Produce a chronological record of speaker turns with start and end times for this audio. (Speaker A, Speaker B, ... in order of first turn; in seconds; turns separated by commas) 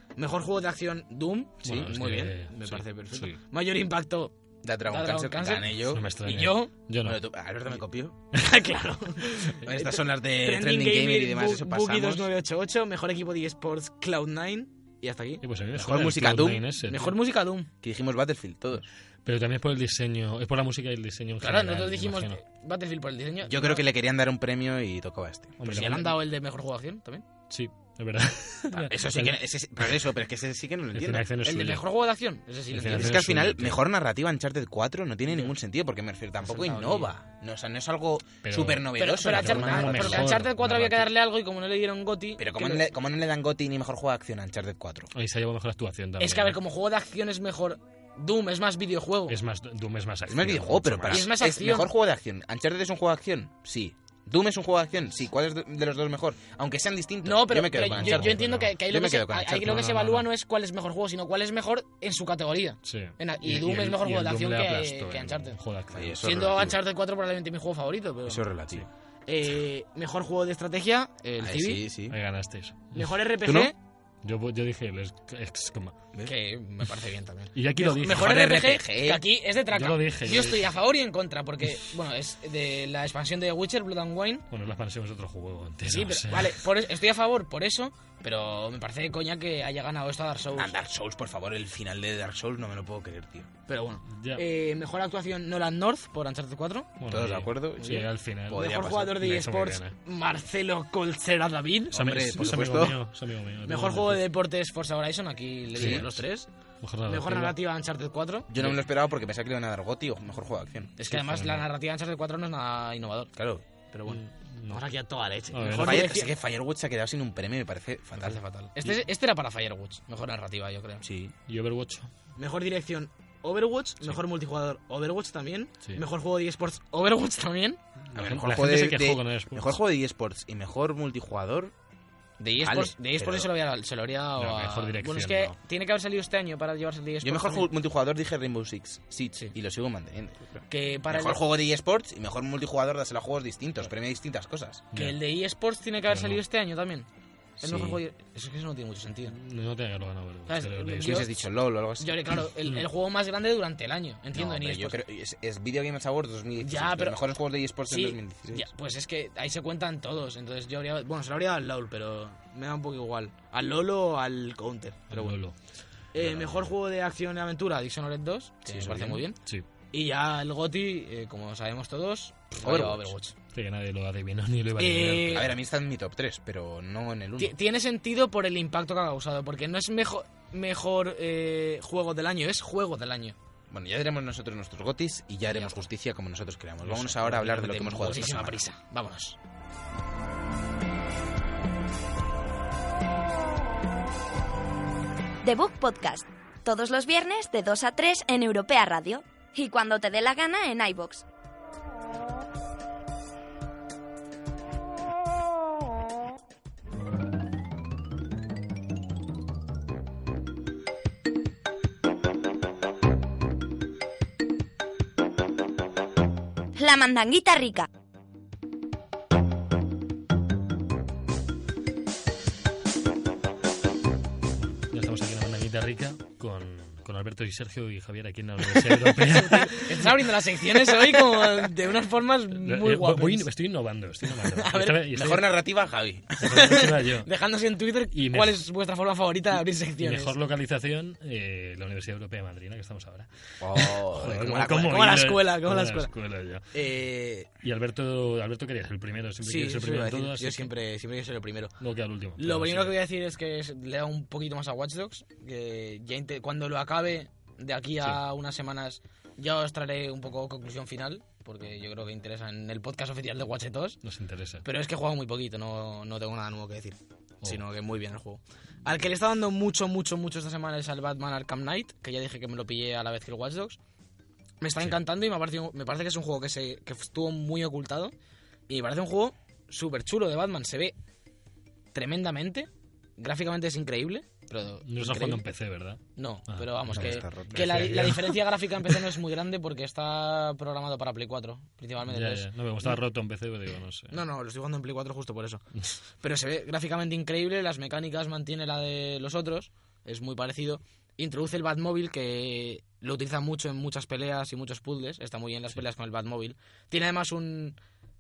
Speaker A: 0.2-4.3, Speaker B: 1.6-1.9, Speaker C: 1.6-3.4, Speaker B: 4.6-6.0, Speaker A: 4.8-6.7, Speaker C: 5.9-7.2, Speaker B: 7.0-8.2, Speaker A: 8.3-15.4, Speaker B: 9.6-12.3, Speaker C: 15.4-17.1, Speaker B: 15.8-16.6, Speaker A: 16.9-17.7, Speaker B: 17.8-18.9, Speaker C: 19.2-22.4, Speaker A: 21.4-23.8, Speaker B: 23.5-25.6, Speaker C: 25.6-26.2, Speaker A: 25.6-27.2, Speaker C: 27.5-29.4, Speaker B: 28.7-31.3, Speaker C: 30.9-31.8, Speaker A: 31.4-33.2, Speaker C: 32.7-33.8, Speaker B: 32.9-40.4, Speaker A: 36.4-37.1, Speaker C: 38.4-41.1, Speaker A: 39.0-42.9, Speaker B: 42.4-45.1, Speaker C: 45.1-46.6, Speaker A: 46.2-49.4, Speaker C: 49.3-51.3, Speaker B: 50.3-59.9, Speaker A: 51.1-51.9, Speaker A: 57.2-65.6, Speaker C: 57.8-58.7, Speaker C: 59.6-60.3, Speaker C: 62.9-66.2, Speaker B: 65.9-66.8, Speaker A: 66.2-68.5, Speaker B: 68.2-68.9, Speaker A: 69.3-71.8, Speaker B: 71.4-72.2, Speaker C: 72.1-73.2, Speaker A: 72.9-73.8, Speaker B: 73.4-73.7, Speaker C: 74.2-76.0, Speaker A: 76.3-84.5, Speaker C: 77.5-78.4, Speaker B: 78.1-79.2, Speaker C: 79.7-80.7, Speaker C: 84.5-86.6, Speaker A: 85.9-90.8, Speaker B: 90.5-93.5, Speaker A: 93.7-96.9, Speaker C: 94.1-94.4, Speaker C: 97.0-100.0, Speaker B: 97.1-99.2, Speaker A: 98.5-102.0, Speaker C: 101.9-104.2, Speaker B: 101.9-103.0, Speaker A: 103.7-106.5, Speaker B: 105.8-106.1, Speaker C: 105.8-106.2, Speaker C: 106.8-107.6, Speaker A: 107.1-108.8, Speaker B: 108.5-111.0, Speaker A: 111.0-113.3, Speaker C: 111.1-111.7, Speaker B: 113.4-113.6, Speaker A: 113.9-116.3, Speaker C: 114.1-114.8, Speaker C: 115.5-116.0, Speaker B: 115.8-118.4, Speaker A: 118.2-121.0, Speaker B: 121.0-121.3, Speaker C: 121.5-122.1, Speaker A: 122.4-127.8, Speaker C: 128.1-129.8, Speaker B: 128.2-131.7, Speaker A: 132.4-137.7, Speaker B: 132.6-133.5, Speaker C: 134.4-135.6, Speaker B: 137.2-144.8, Speaker A: 140.7-141.4, Speaker C: 144.9-145.2, Speaker A: 144.9-147.1, Speaker C: 146.1-146.4, Speaker B: 147.6-148.0, Speaker A: 147.6-149.4, Speaker C: 149.3-151.3, Speaker A: 150.5-151.3, Speaker B: 151.0-152.2, Speaker A: 152.0-155.0, Speaker B: 154.3-158.7, Speaker A: 156.6-157.2, Speaker A: 157.9-165.4, Speaker C: 165.1-165.6, Speaker A: 166.1-169.4, Speaker B: 166.2-166.7, Speaker B: 168.7-169.2, Speaker A: 169.9-173.3, Speaker B: 172.6-173.1, Speaker C: 173.5-175.5, Speaker A: 174.8-175.5, Speaker B: 175.3-177.6, Speaker A: 177.4-183.4, Speaker B: 183.7-188.6, Speaker A: 185.5-185.8, Speaker A: 187.0-189.4, Speaker D: 195.4-201.2, Speaker D: 216.8-217.9, Speaker C: 224.7-230.2, Speaker A: 228.8-233.5, Speaker C: 232.5-235.5, Speaker A: 234.2-235.4, Speaker B: 235.1-236.8, Speaker C: 236.4-237.3, Speaker A: 236.5-240.3, Speaker C: 238.1-238.6, Speaker C: 240.0-246.7, Speaker B: 243.6-245.0, Speaker A: 244.3-246.1, Speaker A: 246.7-247.5, Speaker C: 247.6-250.7, Speaker A: 249.4-251.8, Speaker C: 251.8-253.0, Speaker A: 252.4-264.0, Speaker C: 264.0-264.6, Speaker A: 264.6-273.8, Speaker A: 274.6-278.1, Speaker A: 278.7-280.9, Speaker A: 281.9-285.4, Speaker C: 284.9-289.0, Speaker A: 286.2-293.0, Speaker B: 286.9-288.1, Speaker C: 292.1-294.2, Speaker A: 294.1-295.7, Speaker A: 296.2-307.8